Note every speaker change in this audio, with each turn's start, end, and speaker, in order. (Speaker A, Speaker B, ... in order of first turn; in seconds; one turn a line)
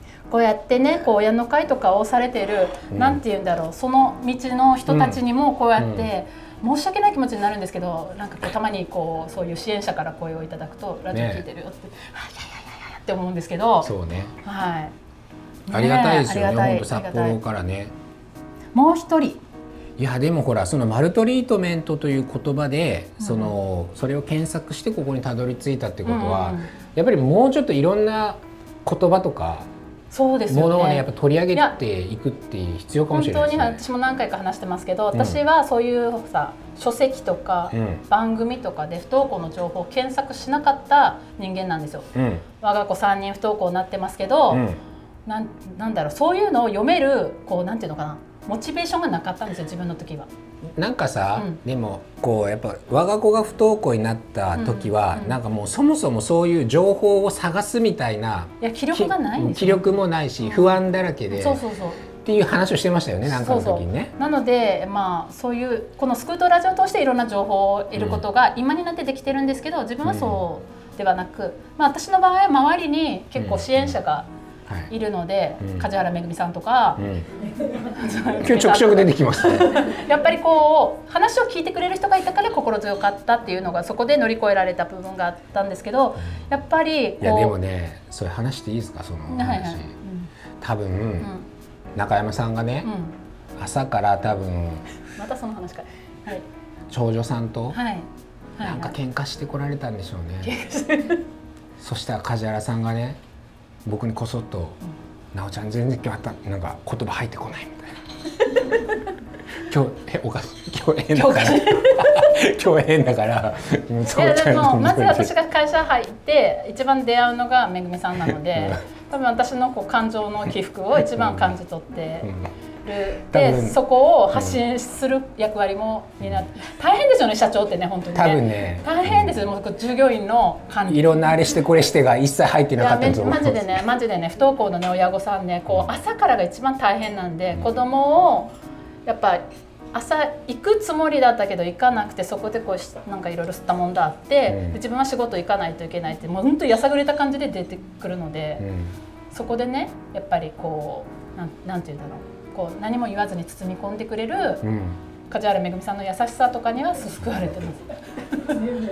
Speaker A: 0.3-13.9
Speaker B: 2.9-3.2
Speaker B: 4.9-5.2
Speaker B: 5.8-6.1
Speaker B: 11.1-11.4
Speaker B: 13.8-14.3
Speaker A: 14.4-14.9
Speaker A: 15.7-17.4
Speaker B: 15.7-17.9
Speaker A: 18.7-19.4
Speaker B: 20.0-29.7
Speaker A: 23.2-23.6
Speaker A: 26.1-26.7
Speaker A: 30.1-31.8
Speaker B: 30.5-33.8
Speaker A: 33.1-44.6
Speaker B: 35.1-35.4
Speaker B: 37.7-38.0
Speaker B: 42.1-42.4
Speaker B: 44.5-44.8
Speaker A: 45.3-50.3
Speaker B: 50.8-61.6
Speaker A: 54.5-55.4
Speaker A: 58.6-60.8
Speaker A: 61.3-62.0
Speaker B: 62.2-64.1
Speaker A: 63.3-74.3
Speaker B: 68.0-68.2
Speaker B: 70.0-70.4
Speaker B: 73.4-74.0
Speaker A: 74.9-77.0
Speaker B: 75.6-75.9
Speaker B: 77.0-77.3
Speaker A: 77.8-87.6
Speaker B: 78.3-79.9
Speaker B: 87.2-89.9
Speaker A: 89.3-90.3
Speaker B: 90.6-91.3
Speaker A: 91.2-91.5
Speaker B: 92.0-92.9
Speaker A: 92.8-93.2
Speaker B: 93.6-94.9
Speaker A: 95.2-96.5
Speaker B: 96.9-97.8
Speaker A: 97.7-98.9
Speaker B: 98.6-100.6
Speaker A: 100.4-101.2
Speaker B: 101.8-103.2
Speaker B: 103.8-104.8
Speaker B: 105.3-107.9
Speaker B: 109.6-115.3
Speaker A: 111.1-112.4
Speaker A: 114.1-122.3
Speaker B: 121.2-121.5
Speaker A: 122.8-131.2
Speaker B: 123.3-123.8
Speaker B: 128.1-129.5
Speaker B: 130.9-133.8
Speaker A: 132.8-138.5
Speaker A: 139.1-148.7
Speaker B: 144.5-144.8
Speaker B: 148.6-148.9
Speaker A: 149.3-154.7
Speaker B: 154.6-155.0
Speaker A: 155.3-157.8